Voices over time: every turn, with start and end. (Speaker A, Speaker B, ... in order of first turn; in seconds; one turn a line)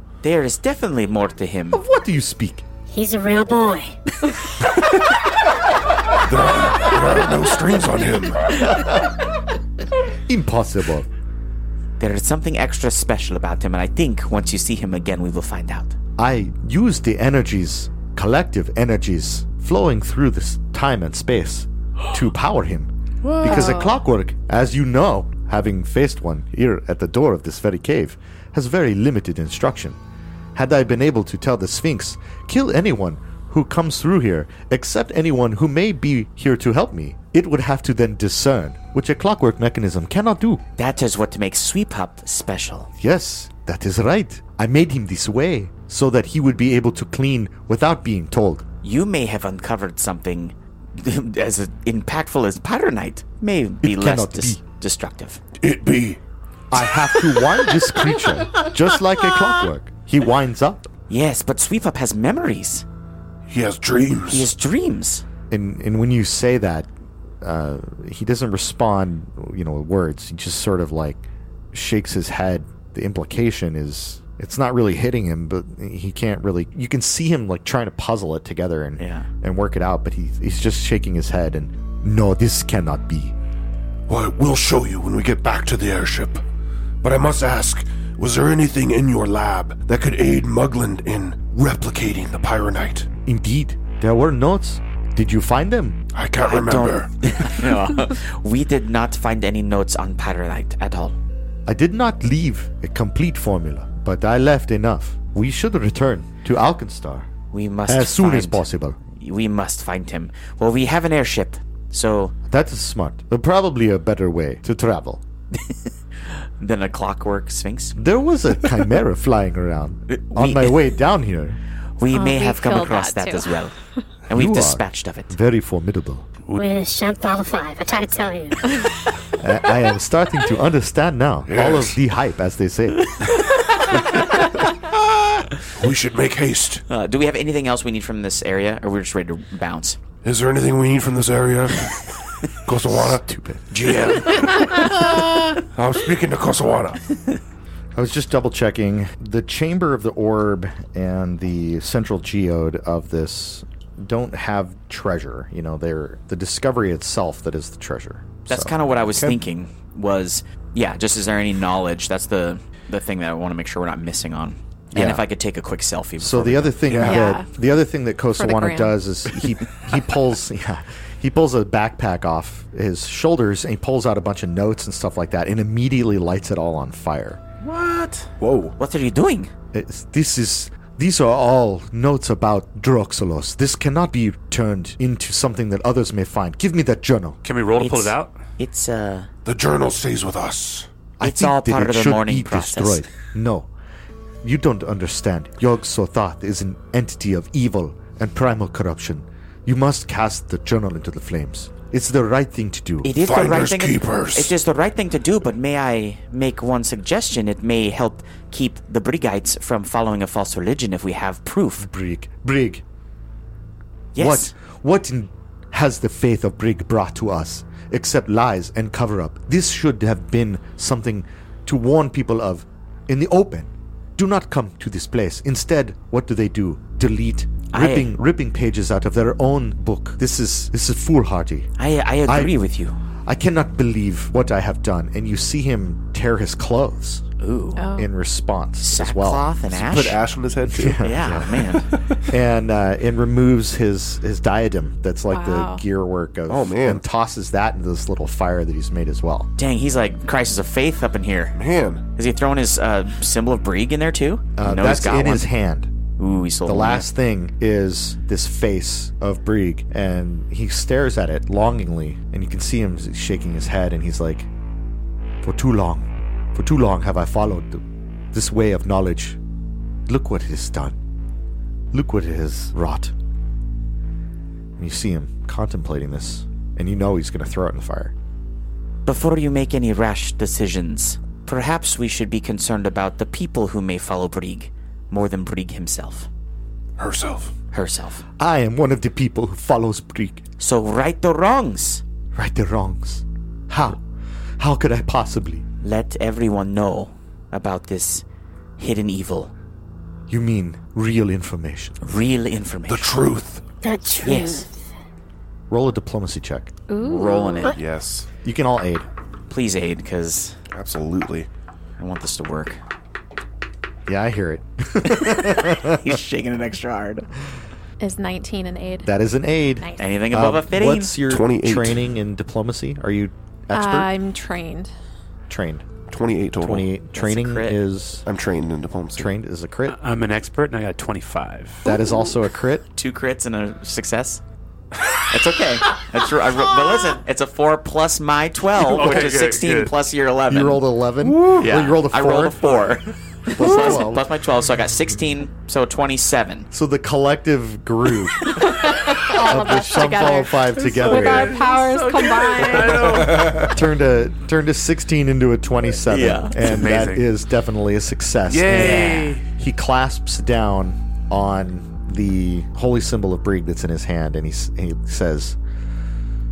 Speaker A: 0.2-1.8
Speaker B: 1.7-2.6
Speaker C: 2.9-4.0
Speaker D: 6.2-8.6
Speaker B: 8.6-9.1
Speaker B: 10.3-11.1
Speaker A: 12.0-15.9
Speaker B: 16.2-22.9
Speaker E: 23.2-23.7
Speaker F: 23.4-24.0
Speaker B: 23.4-30.0
Speaker B: 30.5-40.6
Speaker A: 40.8-42.9
Speaker B: 43.0-48.6
Speaker A: 48.8-55.4
Speaker B: 53.8-54.6
Speaker D: 55.6-56.2
Speaker B: 56.7-60.9
Speaker A: 61.1-62.8
Speaker D: 63.5-64.5
Speaker A: 64.2-65.2
Speaker B: 65.5-66.9
Speaker B: 67.4-83.3
Speaker A: 79.0-79.3
Speaker D: 84.1-86.4
Speaker D: 87.0-93.1
Speaker B: 93.2-96.0
Speaker D: 96.1-97.7
Speaker A: 96.4-101.2
Speaker B: 101.7-107.3
Speaker A: 107.5-112.3
Speaker B: 107.9-109.0
Speaker B: 112.5-115.2
Speaker A: 116.6-118.0
Speaker B: 117.9-121.6
Speaker A: 120.1-120.8
Speaker A: 122.0-123.7
Speaker F: 122.1-123.6
Speaker A: 124.3-125.3
Speaker B: 124.3-126.3
Speaker C: 126.5-128.8
Speaker B: 129.4-133.3
Speaker D: 131.5-132.0
Speaker D: 135.7-136.8
Speaker A: 136.9-140.0
Speaker D: 140.2-142.1
Speaker D: 142.6-145.0
Speaker B: 142.9-143.7
Speaker D: 145.7-147.0
Speaker B: 147.9-159.4
Speaker A: 158.5-166.9
Speaker B: 164.9-165.2
Speaker B: 166.2-177.4
Speaker G: 166.9-167.2
Speaker F: 167.0-167.5
Speaker F: 168.3-168.9
Speaker E: 177.6-178.3
Speaker G: 178.4-178.7
Speaker A: 178.8-179.5
Speaker B: 179.7-187.4
Speaker E: 187.4-188.3
Speaker A: 187.8-189.3
Speaker D: 189.4-190.9
Speaker B: 191.2-193.7
Speaker A: 191.2-193.1
Speaker B: 194.4-203.1
Speaker A: 203.0-211.9
Speaker D: 203.2-204.5
Speaker B: 211.8-212.8
Speaker A: 214.1-214.5
Speaker B: 214.2-231.7
Speaker A: 227.7-228.1
Speaker A: 231.8-233.0
Speaker B: 232.2-232.6
Speaker B: 233.2-237.2
Speaker A: 237.4-237.8
Speaker F: 237.8-238.1
Speaker B: 237.9-239.5
Speaker A: 238.8-240.2
Speaker G: 239.7-241.6
Speaker B: 240.7-249.5
Speaker A: 241.0-241.9
Speaker F: 245.3-245.8
Speaker G: 246.5-247.0
Speaker A: 249.6-251.6
Speaker G: 251.5-252.0
Speaker A: 252.2-255.5
Speaker B: 254.6-255.9
Speaker A: 256.2-257.1
Speaker B: 256.6-264.5
Speaker B: 265.4-269.4
Speaker B: 270.1-271.0
Speaker B: 271.9-273.1
Speaker B: 274.8-278.1
Speaker A: 279.1-286.3
Speaker D: 287.0-287.5
Speaker A: 287.7-288.2
Speaker B: 288.4-290.4
Speaker A: 290.6-292.0
Speaker B: 292.3-294.0
Speaker B: 294.6-295.6
Speaker A: 295.8-298.2
Speaker A: 298.8-299.5
Speaker B: 300.3-302.0
Speaker A: 302.0-303.1
Speaker D: 302.9-303.6
Speaker C: 303.8-304.7
Speaker A: 304.2-304.6
Speaker B: 305.7-306.7
Speaker F: 306.9-307.7
Speaker A: 307.0-307.8
Speaker G: 307.7-308.3
Speaker B: 308.4-309.1
Speaker A: 309.5-310.6
Speaker G: 310.7-311.5
Speaker A: 312.0-312.8
Speaker B: 314.1-316.0
Speaker A: 315.7-317.2
Speaker F: 318.0-319.1
Speaker B: 319.0-324.1
Speaker A: 320.0-321.2
Speaker G: 321.3-322.0
Speaker F: 323.7-324.9
Speaker B: 325.5-325.9
Speaker G: 326.1-326.9
Speaker B: 326.6-328.2
Speaker A: 327.1-327.8
Speaker G: 328.2-329.3
Speaker B: 329.1-330.0
Speaker E: 329.9-331.8
Speaker B: 331.8-332.8
Speaker A: 332.9-334.4
Speaker A: 335.3-340.8
Speaker E: 338.8-339.9
Speaker B: 340.5-342.8
Speaker A: 341.5-346.7
Speaker B: 343.5-344.2
Speaker B: 346.7-348.5
Speaker F: 348.6-353.3
Speaker B: 349.2-351.6
Speaker E: 350.8-353.7
Speaker B: 353.1-365.6
Speaker A: 356.1-356.7
Speaker E: 356.6-357.3
Speaker E: 358.5-359.4
Speaker A: 358.7-359.3